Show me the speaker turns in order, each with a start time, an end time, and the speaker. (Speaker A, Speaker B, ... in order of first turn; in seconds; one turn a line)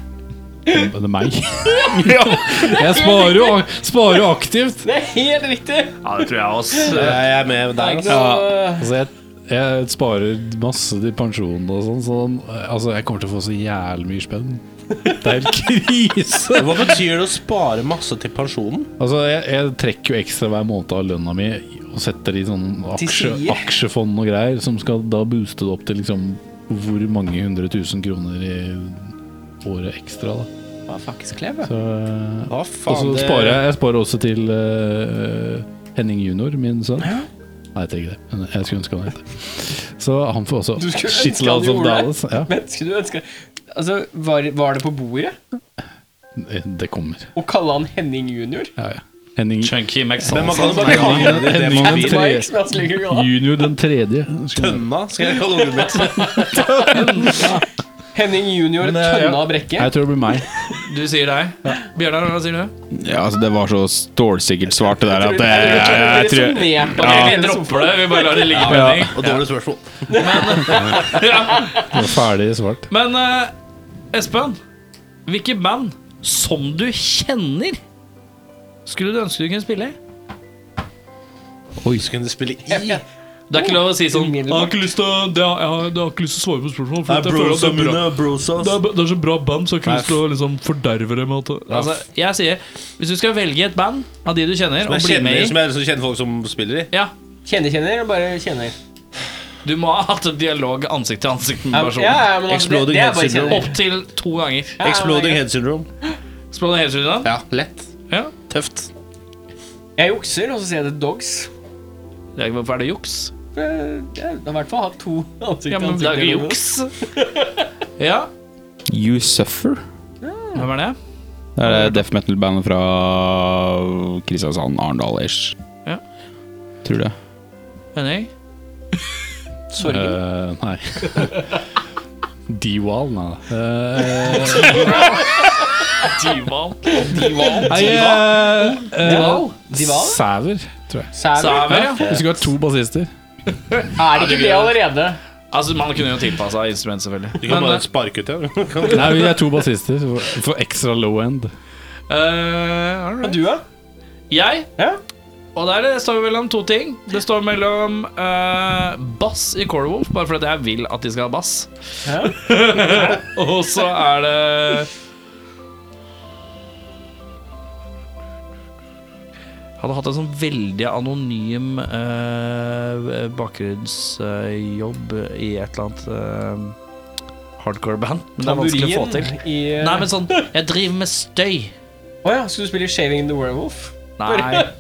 Speaker A: 0.7-4.9
Speaker B: 1.6-3.6
Speaker B: 4.8-6.1
Speaker C: 6.0-7.2
Speaker B: 6.7-7.2
Speaker D: 6.9-8.3
Speaker B: 7.7-8.9
Speaker E: 8.1-8.6
Speaker A: 8.7-16.9
Speaker D: 16.5-18.9
Speaker A: 19.0-29.1
Speaker B: 22.9-23.6
Speaker A: 29.6-30.5
Speaker B: 30.9-31.7
Speaker A: 31.7-37.2
Speaker D: 32.5-33.6
Speaker B: 37.0-37.3
Speaker A: 37.7-42.5
Speaker B: 40.8-45.4
Speaker A: 46.4-47.3
Speaker B: 47.4-48.7
Speaker A: 48.8-49.8
Speaker C: 49.6-51.1
Speaker D: 50.2-52.4
Speaker B: 50.5-53.3
Speaker A: 50.7-54.9
Speaker D: 54.5-57.0
Speaker C: 56.1-57.5
Speaker A: 57.2-57.6
Speaker B: 58.1-59.9
Speaker A: 58.8-60.5
Speaker C: 60.7-62.7
Speaker E: 62.9-67.4
Speaker B: 65.1-68.5
Speaker C: 67.0-69.4
Speaker D: 68.5-71.1
Speaker E: 68.7-69.1
Speaker B: 70.1-71.8
Speaker C: 70.1-71.9
Speaker A: 71.8-72.9
Speaker C: 72.9-73.5
Speaker C: 74.1-74.6
Speaker C: 75.3-77.8
Speaker C: 78.9-80.0
Speaker D: 81.8-83.0
Speaker B: 82.7-83.0
Speaker C: 83.5-95.6
Speaker B: 83.5-84.8
Speaker D: 87.1-88.8
Speaker D: 89.8-90.2
Speaker D: 94.8-96.9
Speaker B: 97.5-98.7
Speaker C: 99.6-102.3
Speaker B: 101.7-103.8
Speaker D: 102.4-103.7
Speaker C: 103.5-104.8
Speaker B: 104.8-105.5
Speaker D: 104.8-105.9
Speaker C: 106.5-107.3
Speaker D: 107.2-107.9
Speaker D: 108.5-108.9
Speaker B: 110.0-111.5
Speaker C: 112.4-113.3
Speaker B: 113.5-117.6
Speaker C: 115.7-116.9
Speaker C: 118.0-118.3
Speaker E: 118.9-119.8
Speaker B: 120.2-120.7
Speaker C: 120.5-121.0
Speaker E: 121.6-125.5
Speaker E: 126.8-127.1
Speaker C: 128.0-128.3
Speaker B: 129.7-130.2
Speaker A: 129.8-131.5
Speaker A: 132.5-135.1
Speaker C: 134.5-138.2
Speaker B: 134.6-135.4
Speaker B: 136.9-140.2
Speaker A: 137.6-141.1
Speaker C: 138.9-139.5
Speaker B: 141.1-142.0
Speaker C: 141.4-142.0
Speaker A: 141.7-143.1
Speaker D: 142.0-142.4
Speaker C: 143.7-144.8
Speaker B: 143.9-145.2
Speaker C: 145.5-147.8
Speaker D: 147.4-149.4
Speaker A: 148.9-151.5
Speaker C: 152.1-153.5
Speaker B: 153.2-153.6
Speaker C: 154.3-154.7
Speaker C: 155.6-161.7
Speaker B: 162.1-163.2
Speaker C: 162.2-164.9
Speaker C: 169.8-176.7
Speaker C: 177.6-181.7
Speaker B: 178.4-180.4
Speaker B: 182.2-184.7
Speaker C: 184.2-184.7